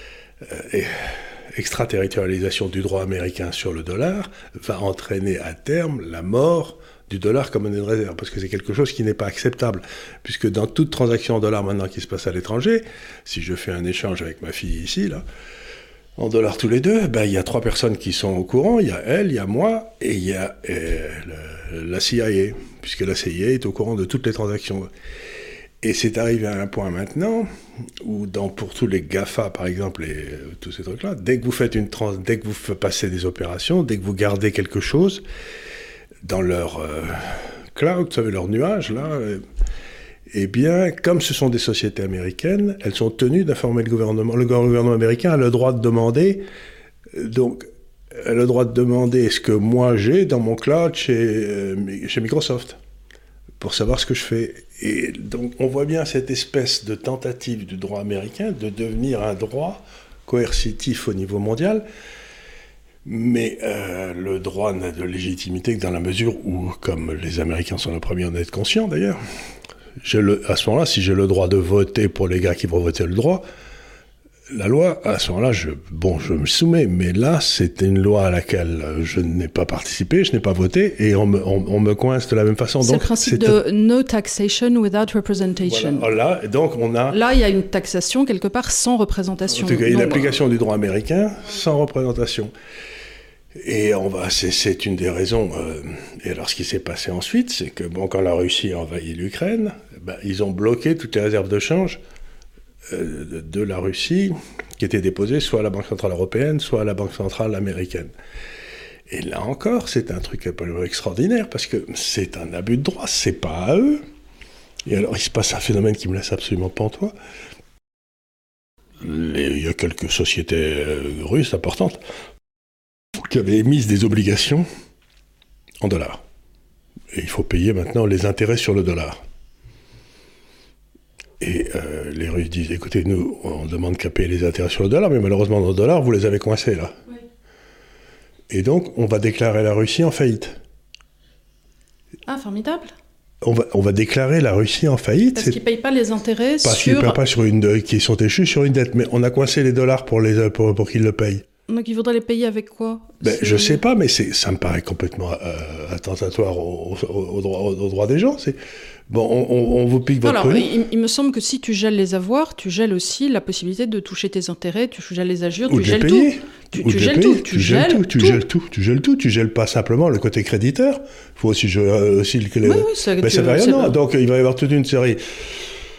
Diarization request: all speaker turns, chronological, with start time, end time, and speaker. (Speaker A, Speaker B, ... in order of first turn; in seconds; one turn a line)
Speaker A: 0.4-15.2
Speaker A: 16.2-24.9
Speaker A: 25.8-27.5
Speaker A: 28.0-35.2
Speaker A: 36.2-39.4
Speaker A: 40.3-46.4
Speaker A: 47.1-47.6
Speaker A: 48.1-52.8
Speaker A: 53.6-61.8
Speaker A: 63.0-69.2
Speaker A: 70.0-73.4
Speaker A: 74.5-83.6
Speaker B: 82.8-86.1
Speaker A: 85.7-87.2
Speaker B: 87.1-90.3
Speaker A: 89.5-92.5
Speaker A: 93.6-102.0
Speaker A: 102.9-108.1
Speaker A: 109.1-114.0
Speaker A: 114.8-117.1
Speaker A: 119.0-122.0
Speaker A: 123.2-124.7
Speaker A: 125.8-126.2
Speaker A: 127.1-129.2
Speaker A: 131.4-136.9
Speaker A: 138.5-140.6
Speaker B: 142.3-142.9
Speaker A: 143.4-145.6
Speaker B: 145.3-147.2
Speaker A: 146.6-151.4
Speaker B: 151.7-153.8
Speaker A: 153.2-158.6
Speaker A: 159.1-160.7
Speaker B: 160.2-168.4
Speaker A: 165.7-175.7
Speaker B: 172.6-173.9